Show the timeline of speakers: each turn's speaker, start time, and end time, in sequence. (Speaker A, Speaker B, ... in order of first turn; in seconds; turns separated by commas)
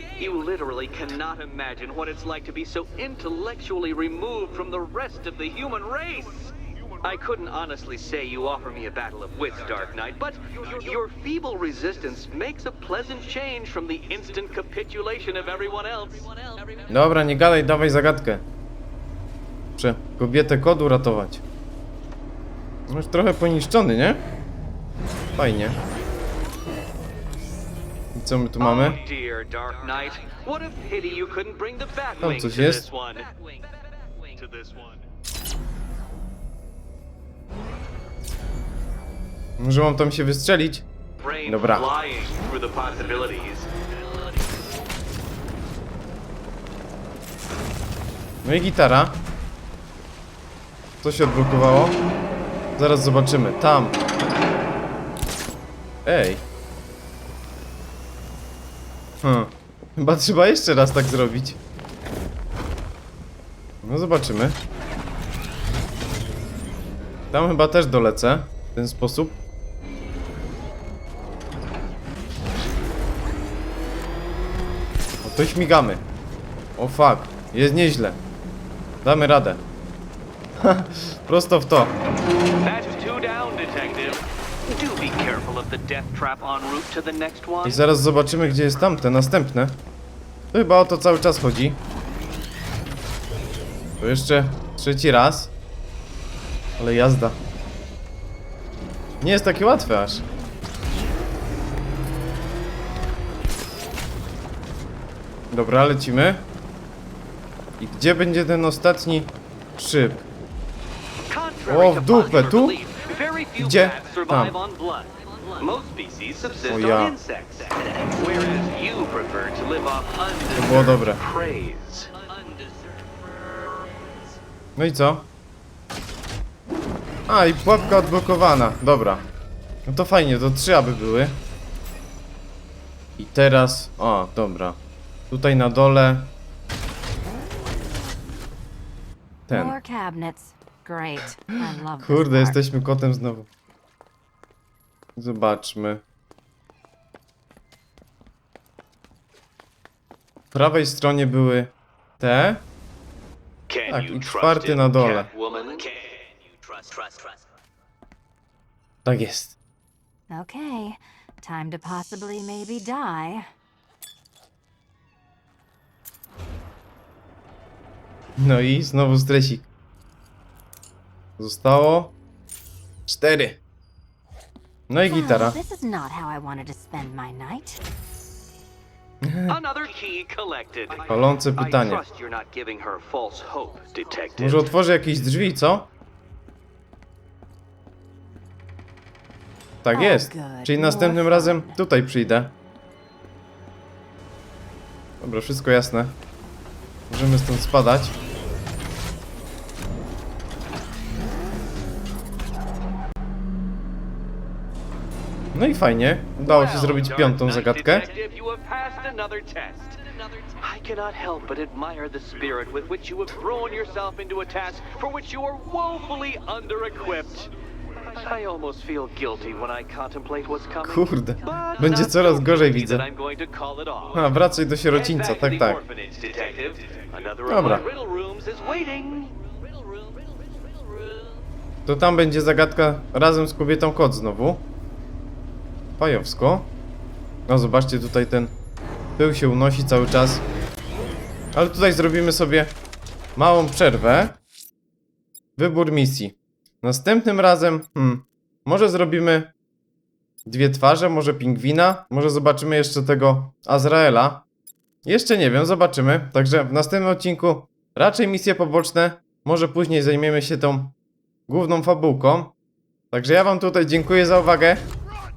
Speaker A: 0.2-6.3, Speaker B: 0.2-1.1, Speaker B: 2.3-4.0, Speaker B: 4.7-5.7, Speaker B: 7.0-16.2, Speaker A: 7.1-16.2, Speaker C: 16.9-18.4, Speaker C: 19.8-21.4, Speaker C: 22.9-24.2, Speaker C: 25.4-25.8, Speaker C: 28.1-29.0, Speaker A: 28.6-33.3, Speaker B: 28.9-30.8, Speaker C: 32.2-32.9, Speaker A: 34.4-34.8, Speaker C: 39.6-40.9, Speaker C: 41.4-41.9, Speaker A: 41.4-43.7, Speaker C: 48.4-49.2, Speaker C: 51.0-52.0, Speaker C: 52.8-54.0, Speaker C: 56.0-56.4, Speaker C: 59.2-61.6, Speaker C: 63.8-64.6, Speaker C: 67.3-69.4, Speaker C: 75.2-76.0, Speaker C: 76.8-78.2, Speaker C: 79.0-79.6, Speaker C: 80.6-82.0, Speaker A: 82.6-84.2, Speaker B: 83.0-84.0, Speaker A: 84.7-87.8, Speaker B: 84.8-87.5, Speaker C: 87.6-89.8, Speaker C: 90.5-91.8, Speaker C: 94.0-95.5, Speaker C: 96.8-97.4, Speaker C: 99.2-100.2, Speaker C: 105.5-106.4, Speaker C: 107.8-110.2, Speaker A: 111.4-117.7, Speaker C: 111.7-112.8, Speaker B: 113.0-113.6, Speaker C: 113.6-114.5, Speaker B: 115.6-116.5, Speaker C: 116.6-117.2, Speaker B: 118.2-118.7, Speaker A: 118.2-122.1, Speaker B: 119.3-120.4, Speaker C: 120.5-121.2, Speaker B: 121.3-122.1, Speaker C: 124.8-125.3, Speaker C: 127.3-129.2, Speaker C: 129.8-131.4, Speaker C: 133.2-134.8, Speaker C: 135.3-136.3, Speaker C: 139.5-139.8, Speaker B: 139.5-142.6, Speaker C: 142.0-143.5, Speaker C: 145.2-146.0, Speaker C: 150.5-152.6, Speaker A: 153.7-154.4, Speaker C: 153.9-155.3, Speaker B: 155.5-155.9, Speaker C: 159.0-159.6, Speaker B: 160.3-163.5, Speaker C: 168.4-169.7, Speaker C: 171.4-172.1, Speaker C: 173.1-173.6, Speaker C: 174.9-175.6, Speaker B: 175.0-177.8, Speaker C: 179.2-179.6, Speaker A: 179.5-184.6, Speaker C: 181.1-182.0, Speaker B: 183.8-184.2, Speaker C: 184.4-185.9, Speaker C: 189.8-192.5, Speaker B: 189.9-191.8, Speaker C: 195.2-196.2, Speaker C: 197.1-198.1, Speaker C: 205.5-208.1, Speaker A: 206.6-210.2, Speaker B: 207.8-209.0, Speaker B: 210.6-214.2, Speaker A: 210.8-217.3, Speaker B: 215.3-216.2, Speaker B: 217.0-217.5, Speaker A: 218.1-220.9, Speaker B: 218.2-220.3, Speaker C: 220.8-223.1, Speaker A: 221.4-224.1, Speaker B: 221.5-224.2, Speaker C: 224.1-225.8, Speaker A: 225.0-229.3, Speaker B: 225.9-229.2, Speaker C: 227.5-227.8, Speaker C: 231.8-234.6, Speaker C: 236.0-236.7, Speaker C: 237.5-238.5, Speaker C: 239.2-240.4, Speaker C: 241.5-242.8, Speaker C: 243.3-244.3, Speaker C: 245.6-249.5, Speaker C: 250.4-254.4, Speaker C: 255.0-260.9, Speaker C: 261.5-262.5, Speaker C: 263.1-264.9